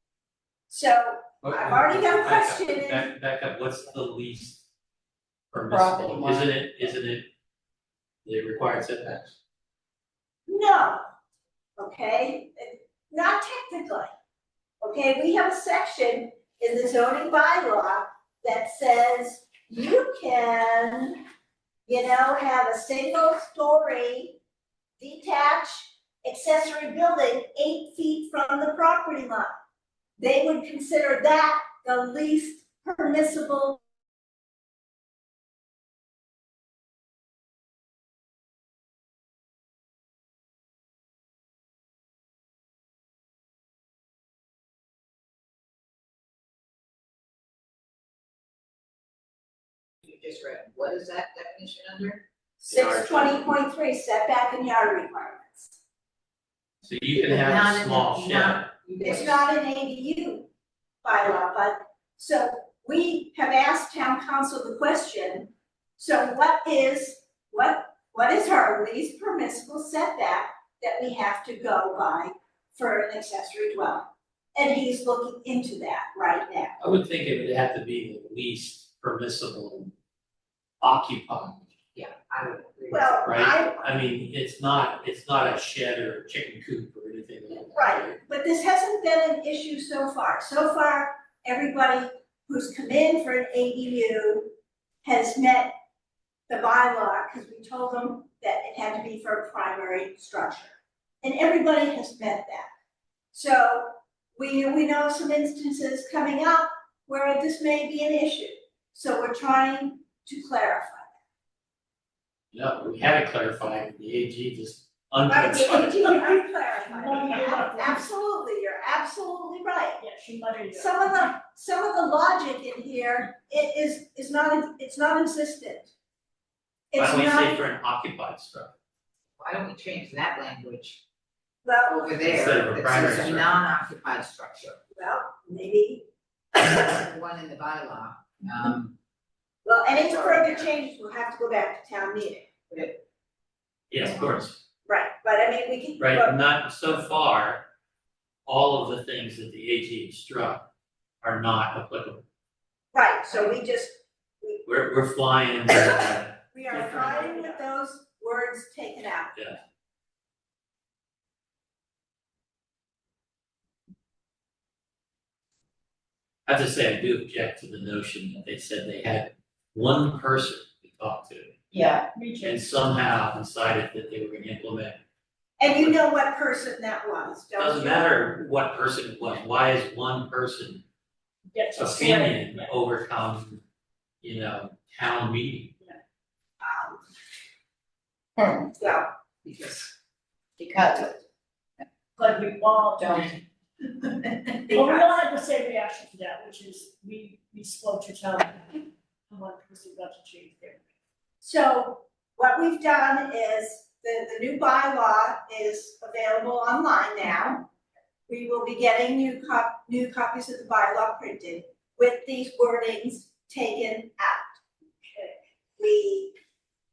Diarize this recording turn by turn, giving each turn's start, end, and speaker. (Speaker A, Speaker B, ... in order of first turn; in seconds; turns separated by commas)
Speaker A: 0.7-3.1, Speaker B: 1.4-4.7, Speaker B: 5.5-7.2, Speaker C: 5.7-6.5, Speaker B: 8.2-9.3, Speaker A: 10.5-11.0, Speaker A: 11.8-14.1, Speaker A: 14.8-21.2, Speaker A: 21.9-24.4, Speaker A: 25.0-29.5, Speaker A: 30.2-33.8, Speaker C: 50.0-52.2, Speaker A: 52.6-55.8, Speaker B: 52.7-53.5, Speaker B: 56.8-58.7, Speaker C: 57.1-59.4, Speaker A: 59.0-60.5, Speaker A: 61.0-76.7, Speaker B: 76.8-79.9, Speaker B: 80.8-81.7, Speaker C: 81.9-83.3, Speaker A: 82.9-83.9, Speaker B: 83.2-88.2, Speaker A: 87.7-94.5, Speaker A: 95.0-95.7, Speaker A: 96.5-102.7, Speaker A: 103.3-111.1, Speaker B: 112.5-116.1, Speaker A: 115.3-120.0, Speaker D: 116.9-118.0, Speaker D: 120.0-121.2, Speaker A: 120.7-125.9, Speaker A: 126.9-127.6, Speaker B: 127.0-128.7, Speaker C: 129.4-131.0, Speaker A: 131.6-132.1, Speaker C: 131.8-134.8, Speaker B: 132.2-133.6, Speaker A: 134.9-136.1, Speaker C: 136.6-138.9, Speaker A: 139.6-142.5, Speaker C: 139.9-140.7, Speaker C: 142.7-143.0, Speaker B: 143.9-144.6, Speaker A: 144.8-146.3, Speaker B: 146.0-147.6, Speaker B: 148.4-150.7, Speaker B: 151.2-152.2, Speaker A: 152.9-154.6, Speaker B: 154.7-157.1, Speaker A: 156.5-159.4, Speaker D: 156.7-157.6, Speaker B: 166.5-171.6, Speaker C: 171.7-172.1, Speaker D: 172.1-172.6, Speaker B: 172.4-175.0, Speaker A: 175.6-178.1, Speaker B: 175.7-176.0, Speaker B: 177.6-180.8, Speaker D: 181.5-182.7, Speaker B: 181.8-183.6, Speaker B: 184.2-185.7, Speaker A: 186.6-187.0, Speaker C: 188.4-188.7, Speaker A: 188.7-189.1, Speaker C: 189.4-189.9, Speaker C: 190.6-191.2, Speaker D: 192.2-193.3, Speaker C: 193.0-193.3, Speaker A: 194.7-195.2, Speaker D: 194.7-200.8, Speaker A: 201.4-207.7, Speaker A: 208.3-214.6, Speaker A: 215.1-216.3